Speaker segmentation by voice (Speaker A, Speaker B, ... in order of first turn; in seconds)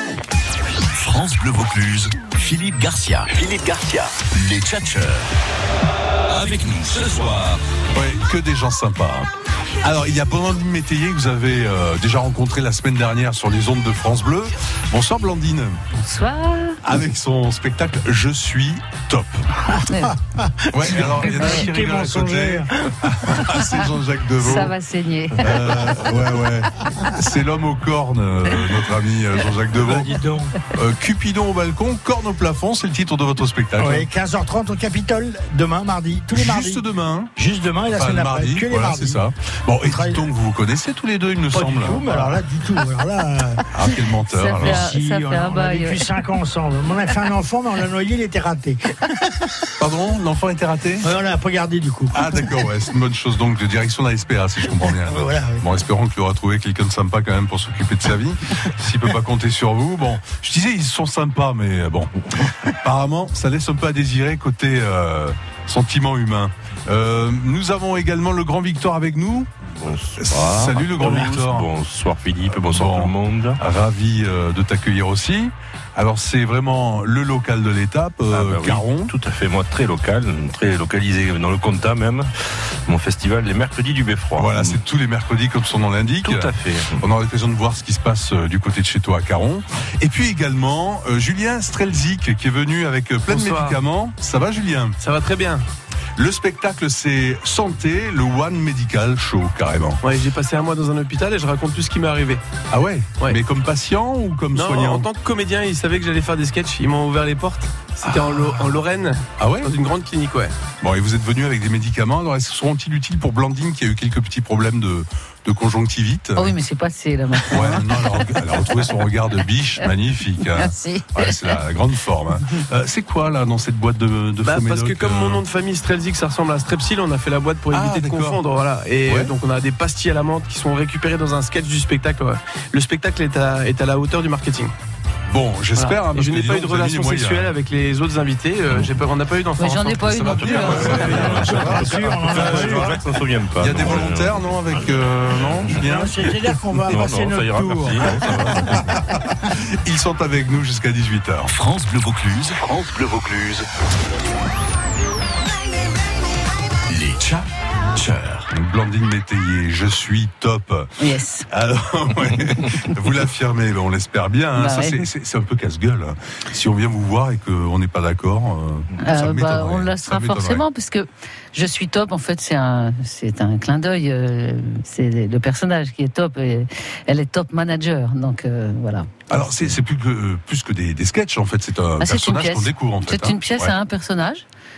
Speaker A: 0.9-5.3, 6.3-7.6, 151.5-153.7, 156.9-158.5
Speaker B: 7.9-9.3, 9.8-15.8, 16.8-19.4, 20.7-24.7, 25.4-34.1, 36.3-37.3, 37.9-42.3, 43.7-44.9, 49.8-51.1, 52.1-62.1, 62.8-69.5, 70.2-71.7, 72.4-79.1, 84.3-95.0, 96.2-100.0, 102.7-105.1, 108.0-108.6, 109.4-109.7, 110.8-116.5, 117.5-125.4, 127.7-128.4, 129.1-129.3, 135.3-137.5, 140.0-143.0, 143.6-146.3, 148.8-151.5, 158.5-170.6, 179.3-183.7
Speaker C: 16.0-16.8, 19.9-20.1, 21.3-21.7, 24.4-26.0, 44.3-46.1, 116.3-118.5, 120.6-121.5, 139.6-141.5, 161.0-161.5, 164.6-165.0, 169.0-179.3, 182.0-184.4
Speaker D: 19.6-22.9, 29.7-30.6, 33.8-36.8, 37.4-39.2, 39.8-40.2, 41.5-43.6, 44.6-49.5, 51.0-52.6, 54.7-55.6, 71.0-71.3, 140.9-143.0, 145.8-148.6
Speaker E: 69.8-73.6, 78.3-82.3, 82.9-84.8, 86.2-87.0, 140.3-144.6, 145.4-145.7, 146.9-148.9
Speaker F: 93.3-93.8, 95.0-95.7, 100.0-102.4, 104.5-110.5, 124.4-134.7, 135.8-140.0